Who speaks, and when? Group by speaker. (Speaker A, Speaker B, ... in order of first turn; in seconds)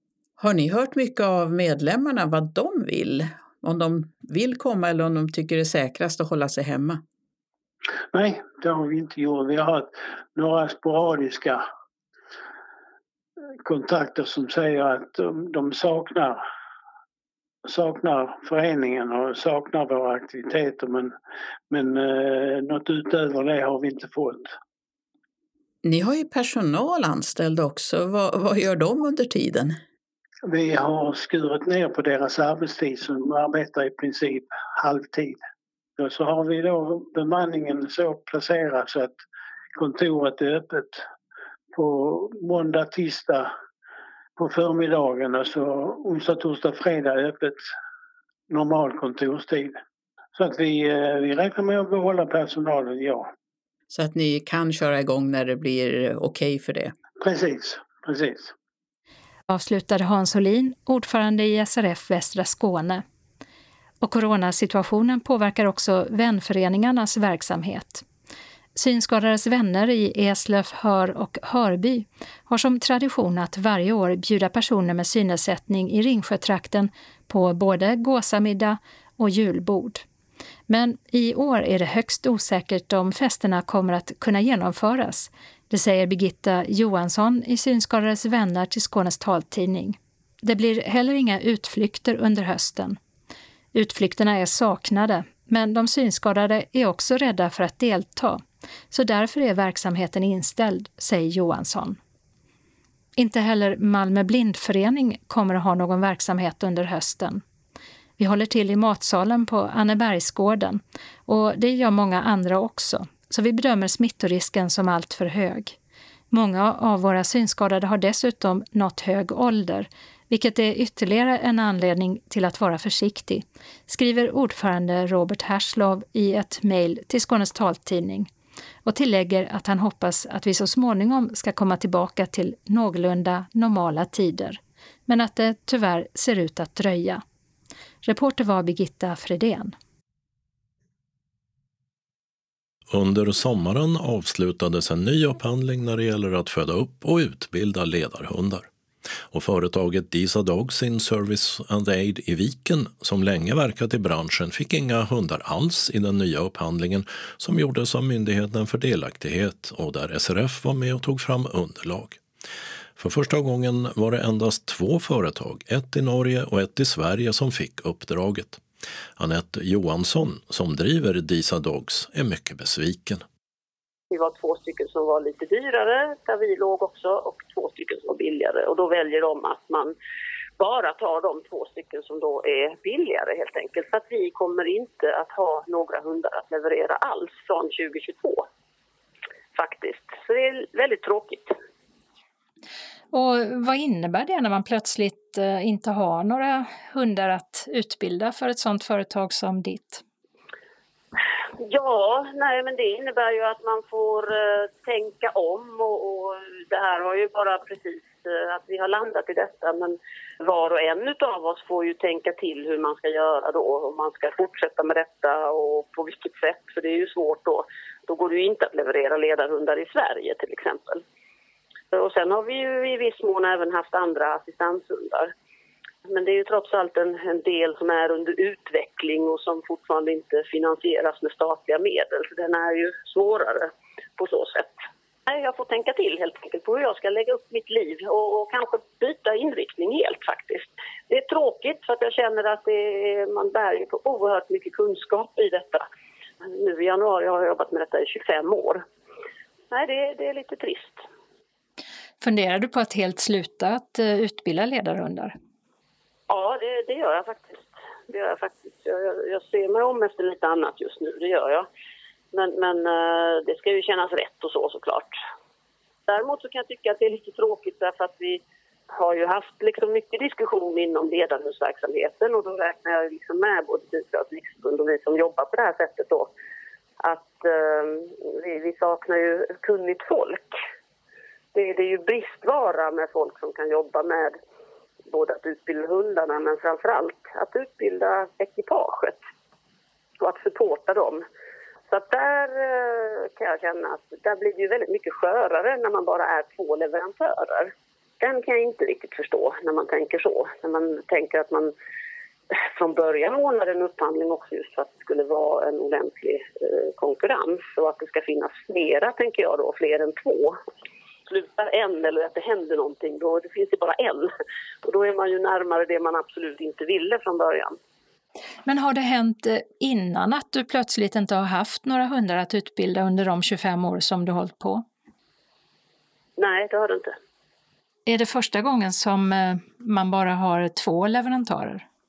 Speaker A: 0.4-7.0, 25.8-29.8, 53.9-56.9
Speaker B: 8.1-11.7, 13.6-16.4, 17.7-21.1, 21.7-24.5, 30.5-35.4, 36.0-39.2, 39.8-41.0, 41.8-43.5, 44.4-47.6, 48.5-49.8, 50.4-53.3, 57.2-58.5
Speaker C: 59.5-63.0, 64.0-68.0, 68.8-80.0, 80.7-93.0, 93.7-102.0, 103.2-107.4, 108.2-115.8, 116.3-128.3, 128.8-137.2, 138.1-139.8, 193.1-200.0, 252.2-255.3, 318.7-324.8, 328.1-331.9
Speaker D: 142.9-148.7, 149.3-162.2, 163.0-168.6, 169.2-173.2
Speaker E: 174.1-179.9, 180.6-188.5, 189.6-191.6, 201.6-221.0, 221.9-225.3, 226.1-234.8, 235.3-245.8, 246.5-248.8, 249.7-251.0, 256.3-261.7, 262.3-265.2, 266.1-276.3, 277.0-280.6, 281.5-284.4, 285.1-289.2, 290.2-291.2, 291.9-301.7, 302.7-310.6, 311.3-314.3, 314.8-317.8, 326.4-327.2